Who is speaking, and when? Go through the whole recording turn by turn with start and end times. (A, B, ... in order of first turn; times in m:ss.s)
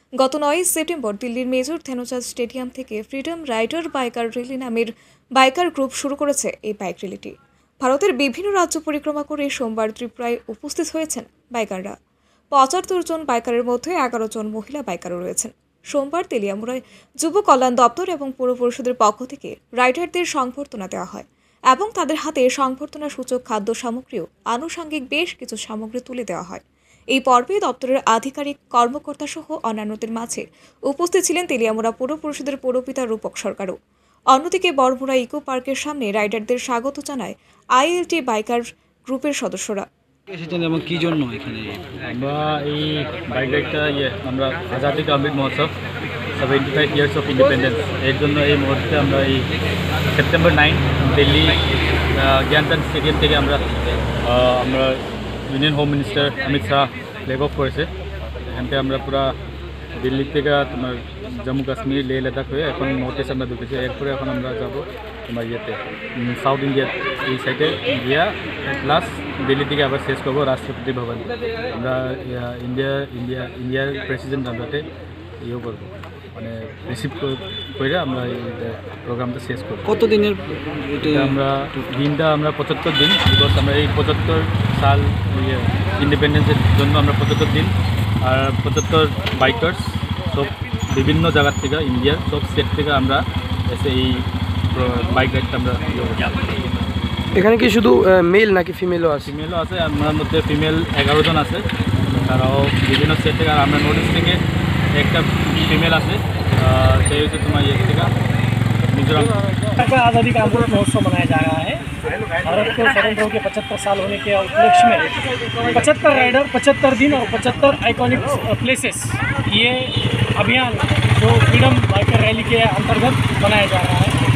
0:00.2-0:11.9 A
0:12.5-0:26.6 A
0:27.1-0:33.8 A
0:34.3-0:39.9 A
0:40.3-0:41.8 B
0:42.1-0:45.7 C
0:46.4-0:49.5 C
0:50.1-0:51.6 C
0:52.2-0:53.6 C
0:54.2-0:57.9 C
0:58.5-0:59.3 C
1:00.0-1:14.9 C
1:15.4-1:19.9 C
1:19.9-1:21.4 B
1:21.0-1:27.7 C
1:28.2-1:34.2 C
1:34.7-1:36.4 C
1:37.3-1:39.3 D
1:39.2-1:41.6 C
1:42.2-1:44.4 C
1:44.9-1:48.1 C
1:48.9-1:49.4 C
1:49.8-1:51.8 E
1:52.4-2:04.2 E